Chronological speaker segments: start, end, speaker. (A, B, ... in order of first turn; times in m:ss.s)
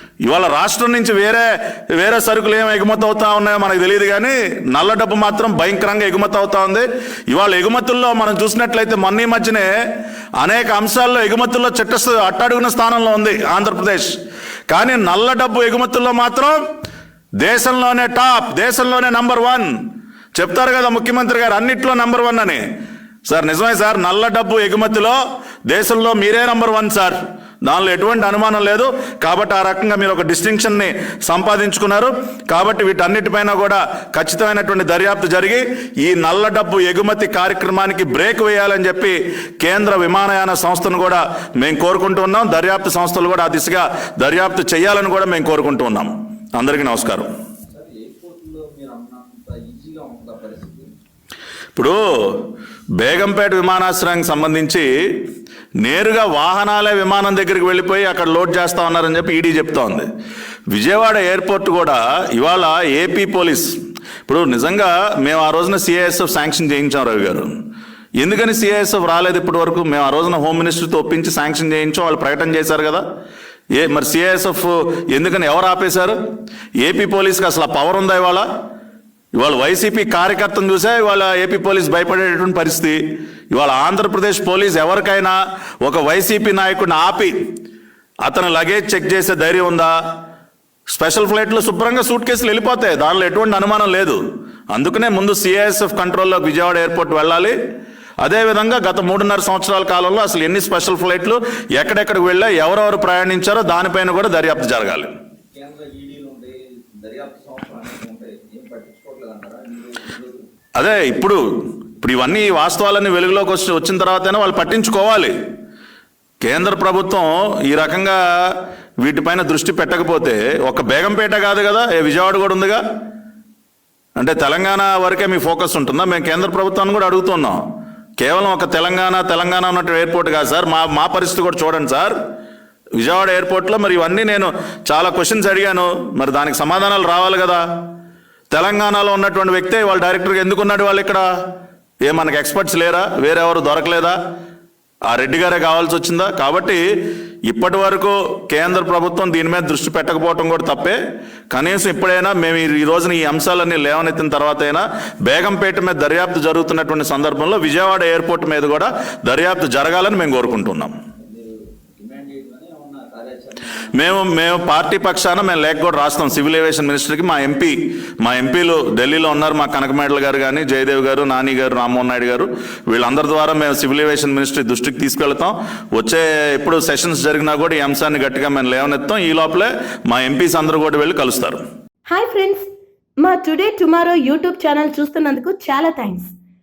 0:00.2-0:09.7 A
0:10.4-0:14.1 A
0:14.7-0:16.6 A
0:17.4-0:19.7 A
0:20.3-0:22.6 A
0:23.3-0:47.3 A
0:47.7-0:50.9 B
0:51.7-0:52.4 A
0:53.0-0:54.9 A
0:55.8-1:00.0 A
1:00.7-1:03.7 A
1:04.2-1:07.5 A
1:08.2-1:13.0 A
1:13.7-1:16.1 A
1:16.8-1:18.4 A
1:19.3-1:23.0 A
1:23.5-1:27.3 A
1:28.2-1:29.9 A
1:30.9-1:34.2 A
1:34.7-1:37.6 A
1:38.2-1:45.1 A
1:45.5-1:50.4 B
1:50.8-1:51.4 A
1:52.0-1:55.3 A
1:56.4-2:02.8 A
2:04.2-2:07.6 A
2:08.2-2:12.1 A
2:13.0-2:17.6 A
2:18.5-2:21.2 A
2:22.0-2:24.1 A
2:25.0-2:26.8 A
2:27.4-2:31.0 A
2:31.5-2:40.9 A
2:41.2-2:44.1 B
2:43.9-3:01.6 A
3:02.1-3:02.6 C
3:03.2-3:06.3 C